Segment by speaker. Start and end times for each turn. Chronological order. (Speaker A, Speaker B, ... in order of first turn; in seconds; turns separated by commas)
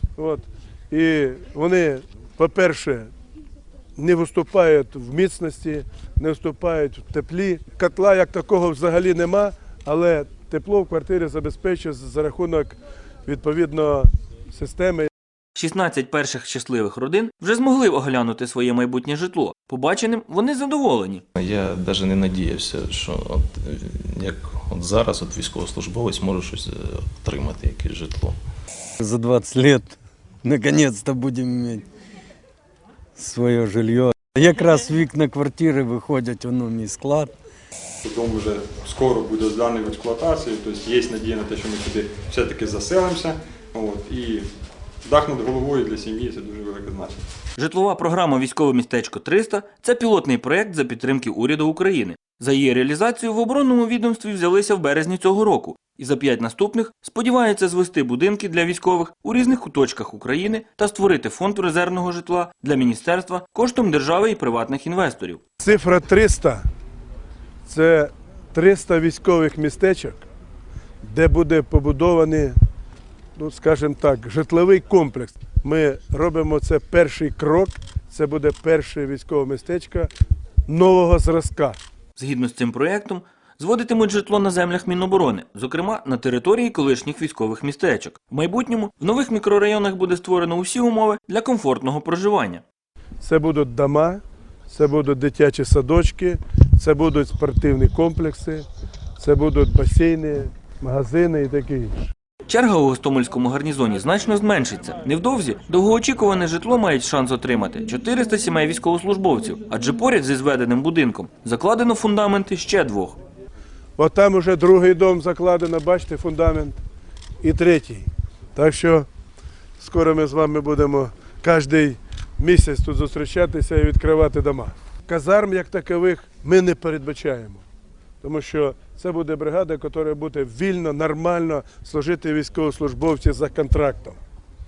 Speaker A: 0.2-3.1, Speaker A: 4.0-15.1, Speaker B: 15.6-21.2, Speaker C: 21.4-28.4, Speaker D: 29.0-29.9, Speaker D: 30.6-31.8, Speaker D: 33.2-37.3, Speaker E: 38.0-44.5, Speaker E: 45.0-47.2, Speaker B: 47.6-65.4, Speaker A: 65.6-66.6, Speaker A: 67.7-70.2, Speaker A: 71.0-72.5, Speaker A: 73.3-80.1, Speaker A: 80.7-81.8, Speaker B: 82.2-92.6, Speaker A: 93.2-98.7, Speaker A: 99.2-102.1, Speaker B: 102.5-113.2, Speaker A: 114.0-116.8, Speaker A: 117.4-119.1, Speaker A: 119.8-127.6, Speaker A: 128.2-134.2